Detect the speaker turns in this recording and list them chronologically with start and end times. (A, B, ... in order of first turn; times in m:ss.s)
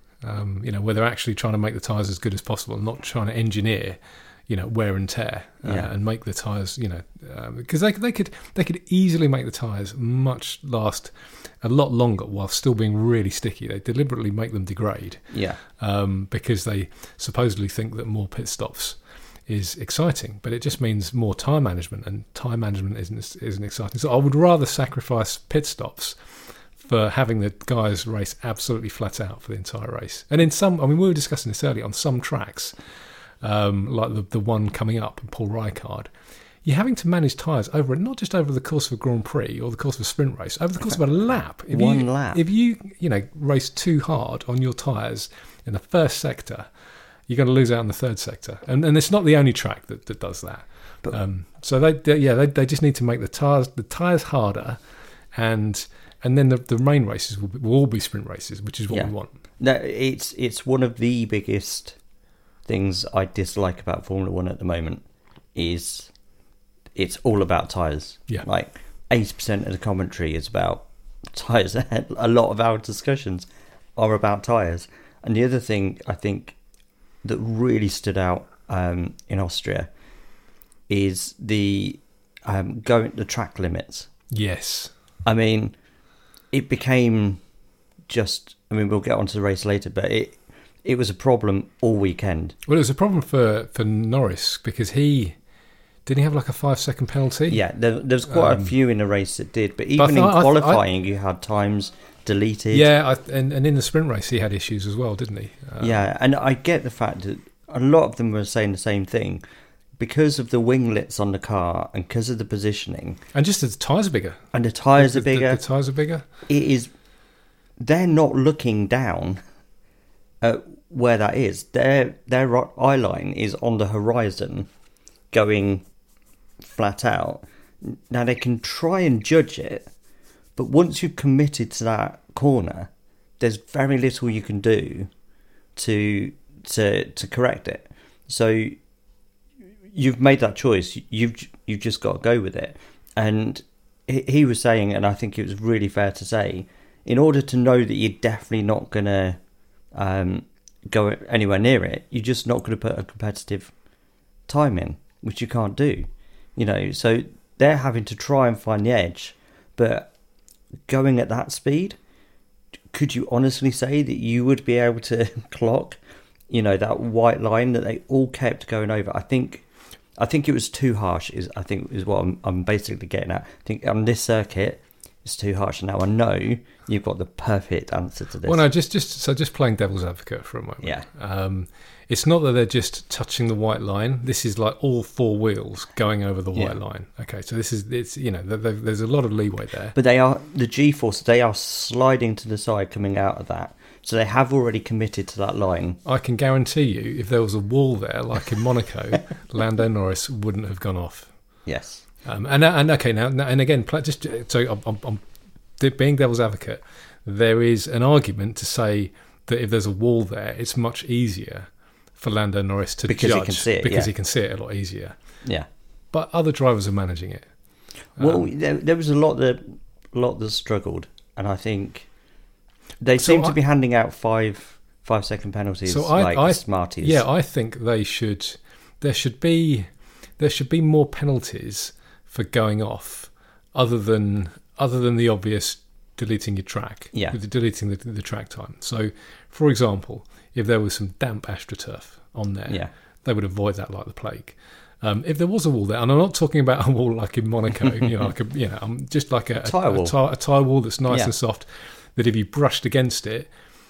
0:00.2-0:32.8 A
0:05.6-0:05.9 B
0:15.3-0:15.6 B
0:33.4-0:36.1 A
0:36.6-0:46.7 A
0:41.7-0:42.4 B
0:47.3-0:54.8 A
0:55.3-0:59.3 A
0:58.9-1:02.0 B
1:02.6-1:05.0 B
1:05.5-1:06.1 B
1:06.9-1:16.6 B
1:17.2-1:19.9 B
1:20.9-1:24.1 B
1:24.3-1:24.9 A
1:25.2-1:25.7 B
1:26.5-1:27.4 B
1:28.1-1:32.5 B
1:32.6-1:35.4 A
1:36.0-1:37.6 A
1:37.5-1:42.9 B
1:38.3-1:38.7 A
1:40.0-1:40.8 A
1:42.7-1:46.0 A
1:45.8-1:49.4 B
1:50.0-1:53.2 B
1:53.3-1:54.4 A
1:54.5-1:55.6 B
1:55.0-1:56.3 A
1:56.5-1:56.9 B
1:57.8-1:59.4 B
2:00.4-2:04.7 B
2:05.3-2:05.8 B
2:06.6-2:09.9 B
2:10.6-2:15.1 B
2:15.8-2:18.8 B
2:19.9-2:29.4 B
2:29.9-2:33.7 B
2:34.5-2:40.1 B
2:40.9-2:42.0 B
2:42.9-2:46.0 B
2:46.5-2:58.6 B
2:58.4-3:10.0 A
3:09.9-3:16.0 B
3:16.0-3:21.6 A
3:21.6-3:22.0 B
3:22.2-3:25.2 A
3:25.8-3:35.2 A
3:33.1-3:34.1 B
3:36.1-3:37.5 A
3:38.1-3:38.5 A
3:38.2-3:42.1 B
3:43.0-3:47.2 B
3:43.2-3:43.6 A
3:45.9-4:13.5 A
4:09.6-4:10.1 B